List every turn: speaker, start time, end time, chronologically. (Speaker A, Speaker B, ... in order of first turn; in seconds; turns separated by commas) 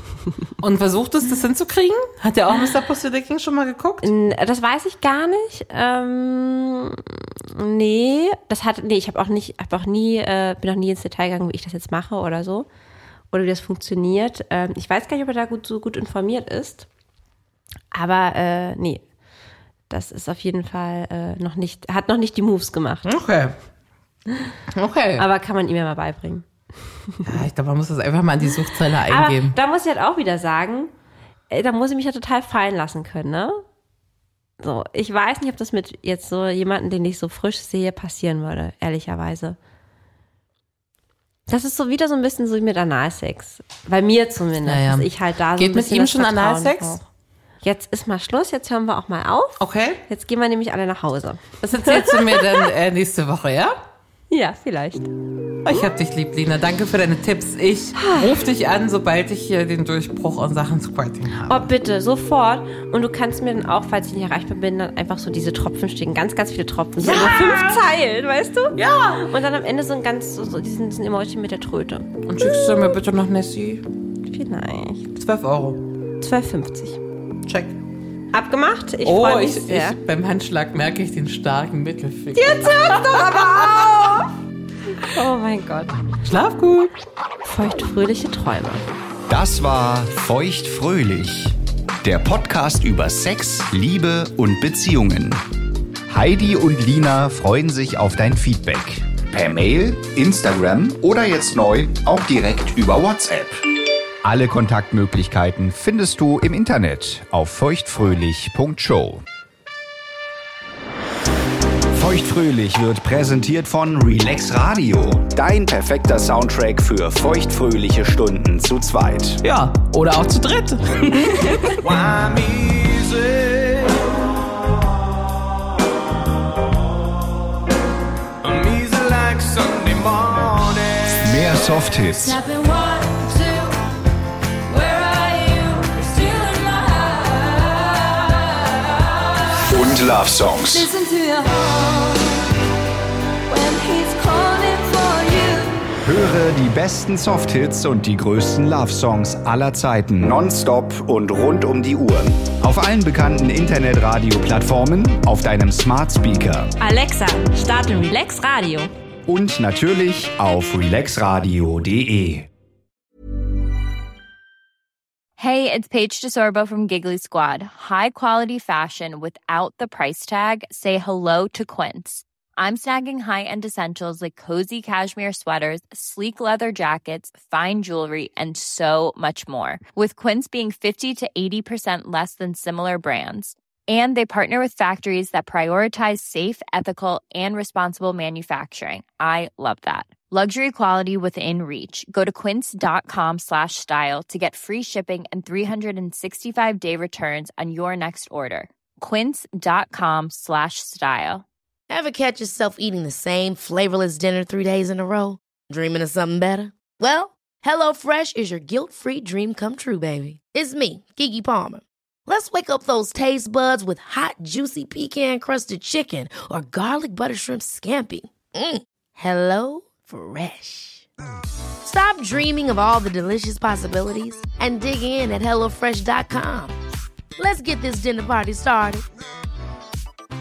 Speaker A: 0.6-4.1, Speaker B: 4.0-12.7, Speaker B: 13.3-16.9, Speaker B: 17.9-19.0, Speaker B: 19.9-23.1, Speaker A: 23.0-23.6, Speaker A: 24.7-25.3, Speaker B: 25.2-26.4, Speaker A: 27.2-29.6, Speaker B: 29.1-30.9, Speaker B: 31.5-33.6, Speaker B: 34.6-39.6, Speaker B: 41.5-47.0, Speaker A: 44.6-47.0, Speaker B: 47.6-52.7, Speaker A: 49.6-50.0, Speaker A: 51.6-53.8, Speaker B: 54.3-55.1, Speaker A: 55.6-61.7, Speaker B: 58.0-58.3, Speaker B: 61.5-72.2, Speaker A: 67.0-67.8, Speaker A: 68.8-69.2, Speaker A: 72.2-73.9, Speaker B: 74.2-75.2, Speaker A: 75.2-75.8, Speaker B: 76.2-77.0, Speaker A: 77.4-77.8, Speaker B: 78.3-80.0, Speaker A: 79.0-84.0, Speaker B: 82.3-84.3, Speaker B: 85.0-86.0, Speaker A: 86.2-86.9, Speaker B: 87.4-88.8, Speaker C: 89.3-95.4, Speaker C: 96.1-103.6, Speaker C: 104.2-109.2, Speaker C: 111.9-119.4, Speaker A: 119.4-121.8, Speaker D: 121.8-124.2, Speaker D: 128.4-131.5, Speaker C: 131.2-132.4, Speaker B: 132.5-133.5, Speaker B: 134.7-137.8, Speaker C: 139.6-140.9, Speaker B: 141.0-142.1, Speaker B: 143.5-145.7, Speaker C: 146.0-156.7, Speaker B: 156.8-158.9, Speaker C: 159.3-162.5, Speaker E: 165.4-201.4, Speaker F: 201.9-221.1, Speaker F: 221.8-226.8, Speaker F: 227.4-229.0